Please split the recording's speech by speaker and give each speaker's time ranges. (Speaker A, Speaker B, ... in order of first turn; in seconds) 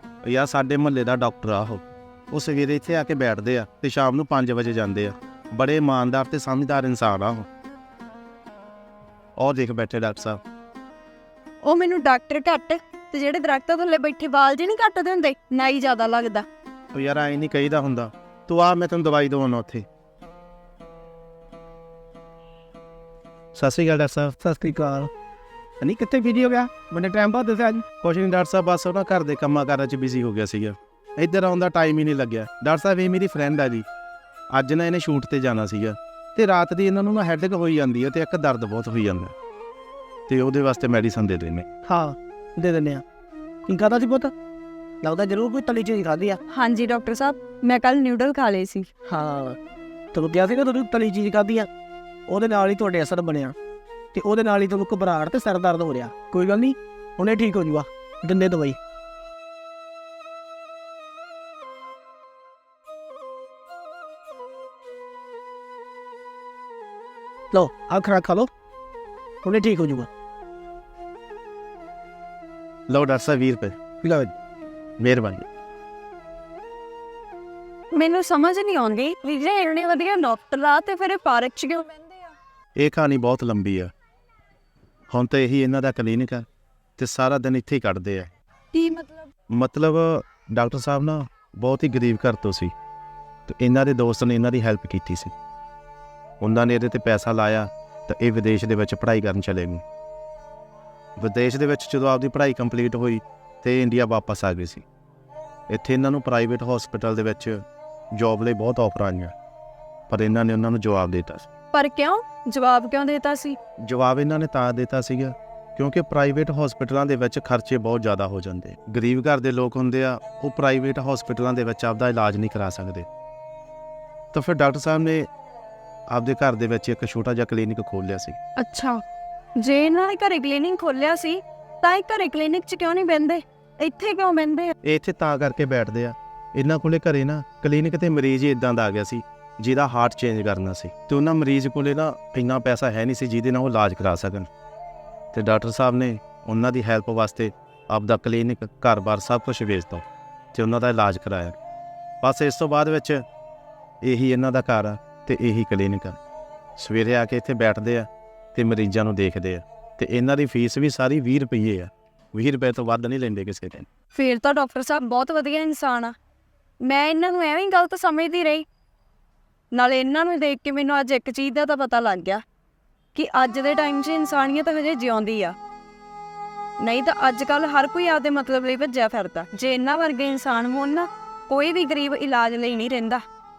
Speaker A: 0.2-7.5, 9.4-10.4, 16.9-19.8, 23.5-24.4, 28.0-33.8, 34.5-39.3, 40.3-41.7, 72.9-73.8, 75.0-75.4, 82.8-83.9, 85.1-86.4, 87.0-88.3, 89.5-92.7, 93.5-95.3, 96.4-99.8, 101.2-104.8, 105.7-109.3, 110.1-111.5, 113.8-123.1, 124.3-125.3, 126.1-128.4, 134.8-144.5, 145.3-151.6, 152.2-153.2, 154.0-156.2, 156.8-163.9
Speaker B: 11.6-16.4, 46.5-48.9, 77.9-82.3, 88.7-89.2, 111.7-113.6, 128.6-129.0, 129.6-134.7, 164.1-166.2, 166.8-168.7, 169.7-172.4, 173.1-175.5, 176.8-183.2
Speaker C: 24.4-25.1, 25.8-27.8, 41.9-43.0, 43.7-44.3, 45.0-46.4, 49.0-49.6, 50.1-51.7, 52.3-53.5, 54.1-58.8, 67.5-68.5, 69.4-70.1, 74.0-74.3